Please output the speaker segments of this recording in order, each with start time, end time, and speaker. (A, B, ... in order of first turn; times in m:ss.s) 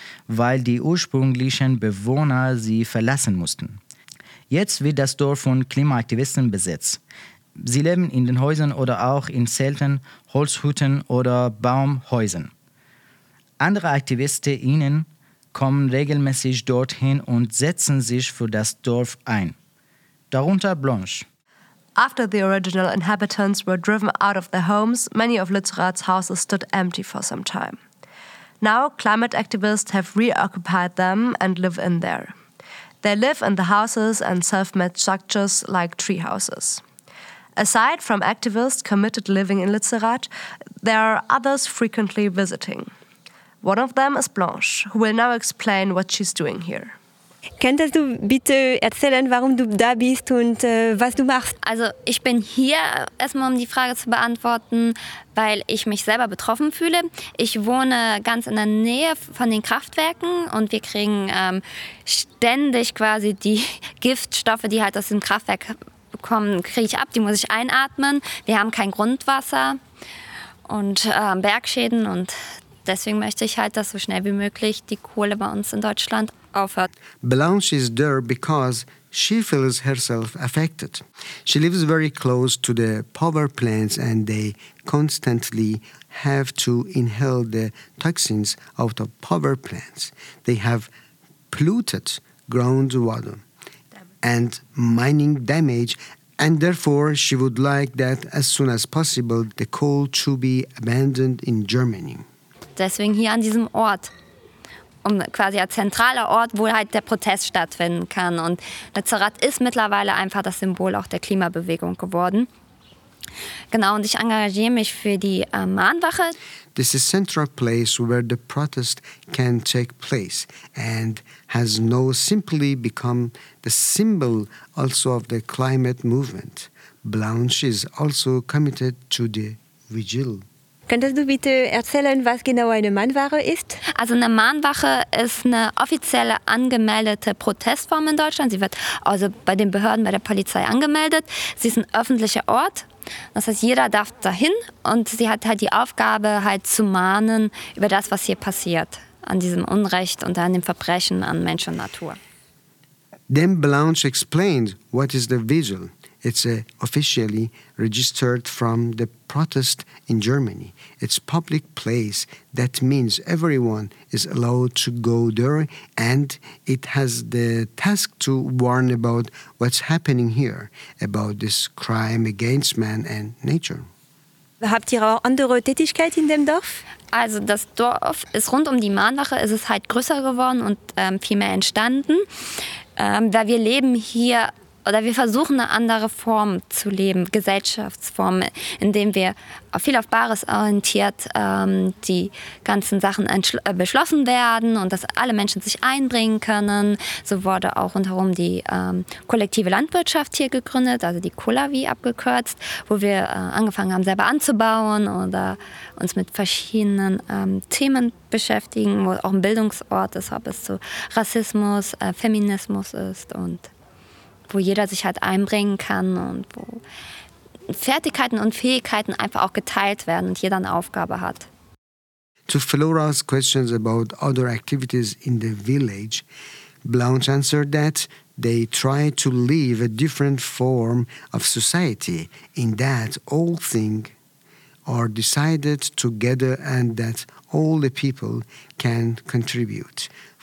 0:00.3-0:03.8 A
0:04.5-0:07.0 A
0:07.6-0:12.5 A
0:13.6-0:19.6 A
0:20.3-0:21.3 A
0:22.0-0:27.8 B
0:28.6-0:32.4 B
0:33.0-0:36.8 B
0:37.6-0:40.3 B
0:40.8-0:42.9 B
0:43.6-0:46.9 B
0:47.6-0:51.5 C
0:51.6-1:09.8 D
1:10.7-1:16.9 D
1:17.2-1:30.9 E
1:31.5-1:33.4 E
1:34.2-1:42.3 E
1:42.8-1:44.1 D
1:45.0-1:52.5 D
1:53.7-1:56.4 D
1:56.8-2:10.4 E
2:10.9-2:13.8 C
2:13.9-2:32.2 D
2:33.3-2:53.9 E
2:54.6-2:56.8 C
2:57.1-3:02.3 D
3:03.0-3:33.7 D
3:34.5-3:36.8 D
3:37.7-3:41.5 D
3:42.5-3:46.3 E
3:46.8-3:54.1 E
3:54.9-4:00.1 E